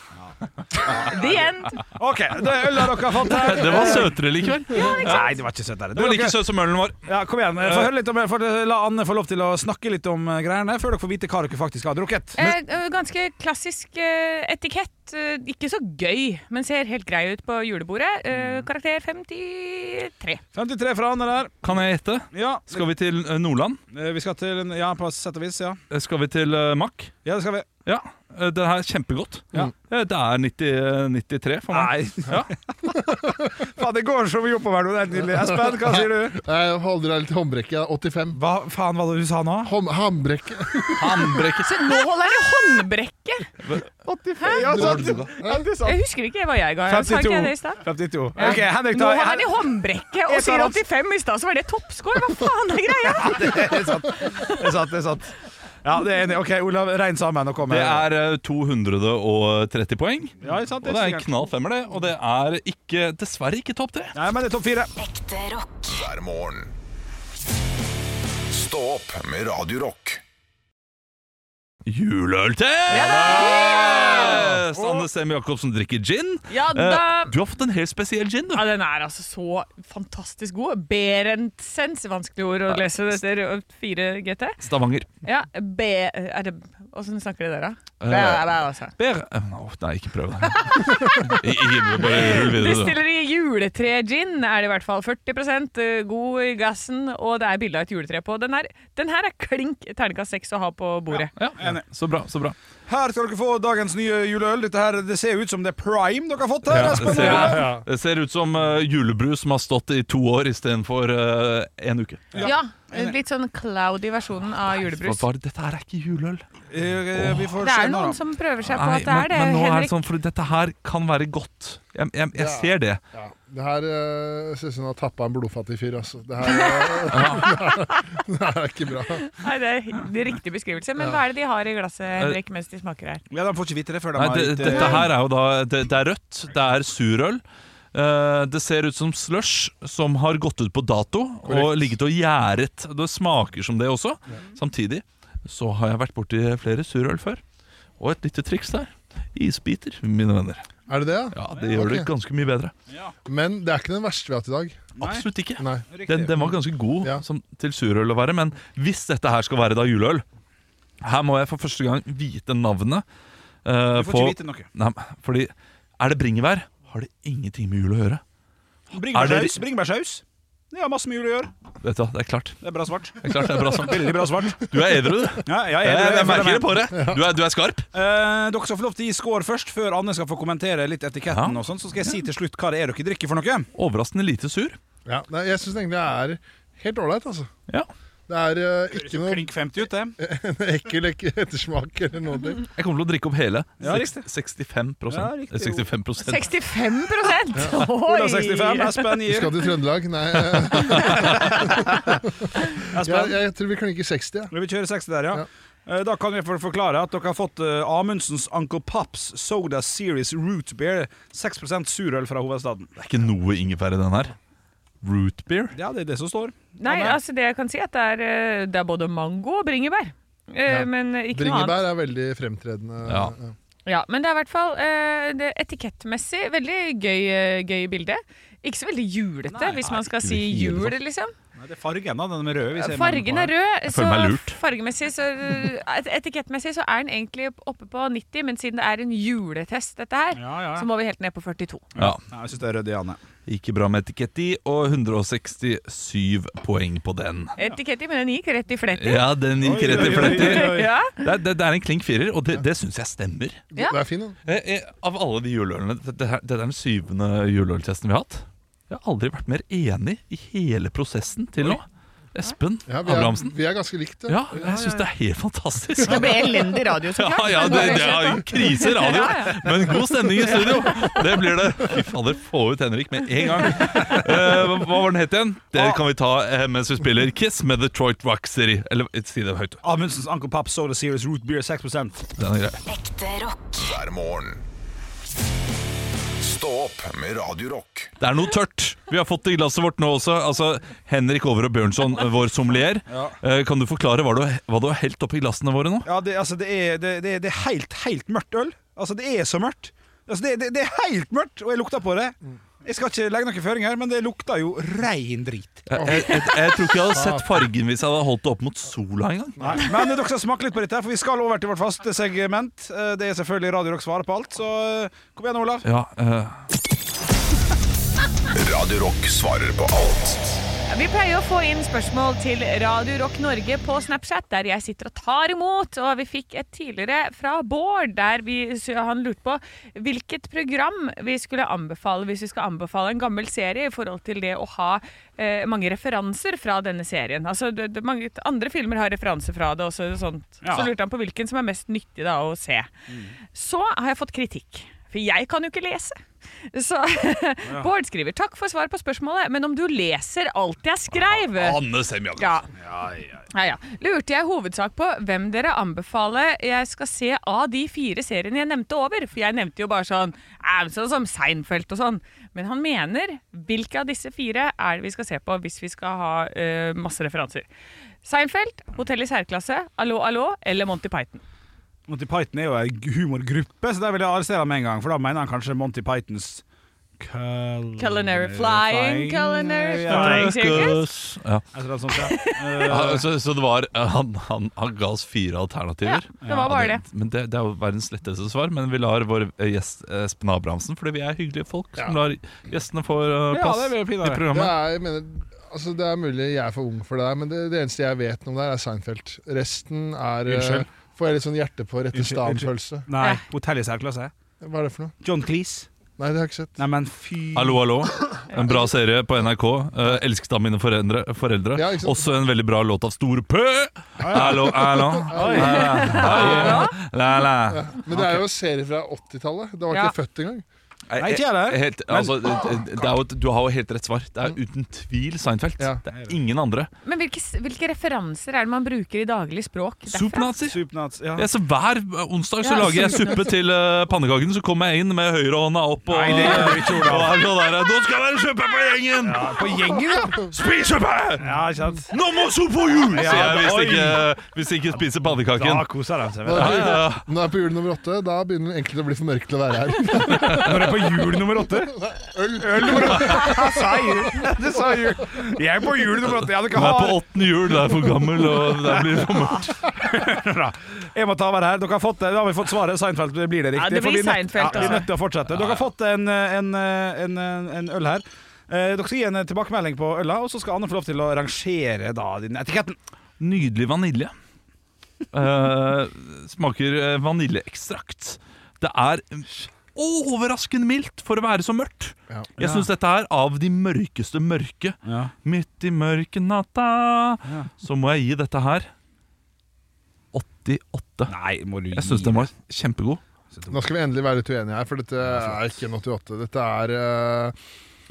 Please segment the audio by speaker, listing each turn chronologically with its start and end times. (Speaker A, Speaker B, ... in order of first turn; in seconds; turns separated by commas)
Speaker A: 0.2-4.2, Speaker B: 0.9-1.8, Speaker C: 3.2-5.3, Speaker B: 4.7-5.3, Speaker A: 4.8-6.4, Speaker C: 5.9-7.0, Speaker A: 7.1-12.4, Speaker C: 7.6-7.9, Speaker B: 12.3-20.4, Speaker A: 18.3-18.7, Speaker A: 20.5-21.7, Speaker C: 21.6-23.8, Speaker A: 22.3-22.8, Speaker A: 23.9-25.8, Speaker C: 25.9-27.1, Speaker A: 27.2-27.7, Speaker C: 27.8-32.5, Speaker A: 31.7-36.4, Speaker D: 33.1-33.3, Speaker D: 35.2-38.4, Speaker A: 38.3-39.7, Speaker D: 39.6-41.4, Speaker C: 41.0-42.0, Speaker B: 41.6-43.5, Speaker C: 43.6-43.9, Speaker A: 44.0-46.0, Speaker B: 44.4-44.7, Speaker C: 44.5-45.3, Speaker D: 44.6-45.6, Speaker B: 45.8-54.7, Speaker A: 46.9-49.5, Speaker A: 50.3-50.8, Speaker A: 53.1-58.0, Speaker C: 57.7-64.2, Speaker A: 60.4-61.3, Speaker A: 64.2-64.9, Speaker E: 64.9-66.8, Speaker E: 68.5-70.2, Speaker C: 71.8-78.7, Speaker B: 72.9-74.5, Speaker A: 72.9-75.0, Speaker B: 76.5-77.3, Speaker B: 78.5-84.6, Speaker C: 84.6-85.1, Speaker B: 85.2-89.0, Speaker C: 88.0-88.4, Speaker C: 89.0-93.0, Speaker B: 90.6-101.3, Speaker C: 101.3-102.5, Speaker A: 101.6-101.8, Speaker A: 102.9-107.8, Speaker D: 106.7-107.8, Speaker C: 106.7-112.5, Speaker A: 112.3-113.2, Speaker B: 112.4-115.2, Speaker C: 114.9-116.4, Speaker A: 116.7-118.2, Speaker C: 117.1-117.5, Speaker B: 117.6-120.0, Speaker C: 118.6-123.0, Speaker D: 122.3-129.2, Speaker B: 126.4-127.1, Speaker C: 127.1-127.5, Speaker B: 129.3-133.2, Speaker A: 133.3-135.1, Speaker C: 134.1-147.4, Speaker B: 134.7-135.0, Speaker D: 141.4-141.9, Speaker C: 148.0-150.6, Speaker D: 150.9-152.1, Speaker C: 151.3-152.7, Speaker A: 151.5-151.8, Speaker A: 152.9-153.1, Speaker D: 153.2-154.8, Speaker A: 155.0-155.3, Speaker C: 155.0-160.2, Speaker D: 155.6-155.8, Speaker A: 155.8-156.5, Speaker C: 161.0-163.0, Speaker C: 163.6-168.2, Speaker A: 163.9-164.7, Speaker A: 168.9-171.5, Speaker C: 169.1-169.6, Speaker C: 171.8-172.6, Speaker A: 172.6-174.7, Speaker C: 173.2-177.9, Speaker A: 175.4-176.8, Speaker D: 176.9-177.2, Speaker A: 177.9-183.7, Speaker C: 181.3-182.2, Speaker C: 183.7-184.8, Speaker D: 185.1-187.5, Speaker D: 188.3-189.5, Speaker A: 188.9-190.2, Speaker D: 190.2-192.6, Speaker C: 192.8-196.4, Speaker A: 193.8-194.3, Speaker A: 195.1-195.9, Speaker B: 196.2-199.2, Speaker D: 197.5-197.8, Speaker A: 197.8-199.6, Speaker D: 199.2-204.5, Speaker A: 200.9-202.2, Speaker A: 202.8-203.3, Speaker A: 204.5-212.9, Speaker C: 213.0-214.3, Speaker C: 215.0-215.8, Speaker A: 215.7-217.2, Speaker B: 216.8-221.8, Speaker D: 220.7-223.5, Speaker C: 223.1-223.3, Speaker B: 223.8-231.3, Speaker A: 229.5-229.9, Speaker C: 229.9-230.9, Speaker A: 231.6-233.5, Speaker B: 232.8-241.9, Speaker C: 233.9-234.6, Speaker A: 240.3-240.9, Speaker C: 241.9-242.2, Speaker A: 241.9-243.2, Speaker C: 243.4-247.6, Speaker B: 247.6-249.3, Speaker C: 248.9-253.6, Speaker A: 249.6-250.9, Speaker B: 249.8-251.2, Speaker D: 253.7-254.4, Speaker C: 254.4-263.5, Speaker D: 262.9-264.9, Speaker C: 264.3-279.8, Speaker B: 266.0-271.2, Speaker A: 279.8-282.2, Speaker C: 282.4-282.8, Speaker E: 282.9-284.6, Speaker E: 286.4-288.1, Speaker C: 288.2-296.1, Speaker A: 293.1-293.3, Speaker A: 296.0-305.9, Speaker C: 305.9-309.8, Speaker D: 305.9-306.4, Speaker D: 307.1-307.5, Speaker A: 309.6-315.8, Speaker C: 315.8-316.6, Speaker E: 318.5-320.6, Speaker B: 320.9-342.9, Speaker A: 340.6-340.9, Speaker A: 343.1-343.3, Speaker B: 343.5-346.2, Speaker B: 346.7-351.8, Speaker C: 351.1-352.6, Speaker B: 352.4-352.7, Speaker A: 352.8-353.4, Speaker B: 353.5-367.7, Speaker B: 368.2-371.4, Speaker A: 372.1-376.6, Speaker A: 377.2-380.9, Speaker B: 378.0-381.0, Speaker C: 380.0-381.6, Speaker A: 381.7-383.3, Speaker B: 382.1-382.9, Speaker C: 382.9-394.7, Speaker B: 386.0-387.0, Speaker A: 386.4-386.7, Speaker A: 393.5-394.4, Speaker D: 394.5-403.1, Speaker A: 400.5-400.9, Speaker A: 402.1-404.3, Speaker D: 404.6-405.1, Speaker A: 405.2-405.9, Speaker D: 406.2-406.9, Speaker A: 406.8-407.8, Speaker C: 407.5-418.4, Speaker D: 411.7-412.3, Speaker A: 414.2-416.9, Speaker D: 414.3-416.6, Speaker B: 415.8-416.9, Speaker D: 417.7-420.6, Speaker B: 419.9-420.1, Speaker C: 421.1-426.9, Speaker A: 421.2-423.1, Speaker A: 426.1-426.4, Speaker B: 427.0-430.5, Speaker C: 430.1-430.8, Speaker A: 430.6-431.5, Speaker C: 431.4-439.8, Speaker B: 432.6-433.4, Speaker A: 436.1-437.4, Speaker A: 439.2-440.5, Speaker C: 440.4-441.6, Speaker A: 441.4-442.1, Speaker C: 442.1-445.9, Speaker A: 443.1-444.2, Speaker A: 445.5-447.0, Speaker D: 446.4-450.9, Speaker C: 446.5-447.2, Speaker C: 450.2-450.9, Speaker A: 450.6-457.3, Speaker D: 451.9-454.5, Speaker C: 456.5-459.8, Speaker A: 458.7-473.0, Speaker B: 463.7-465.1, Speaker C: 465.5-465.9, Speaker C: 473.4-474.3, Speaker C: 475.3-488.9, Speaker A: 482.6-482.9, Speaker A: 485.0-485.3, Speaker C: 490.3-491.3, Speaker A: 491.3-492.5, Speaker C: 491.9-493.2, Speaker A: 493.5-493.8, Speaker D: 493.7-497.6, Speaker A: 495.2-495.6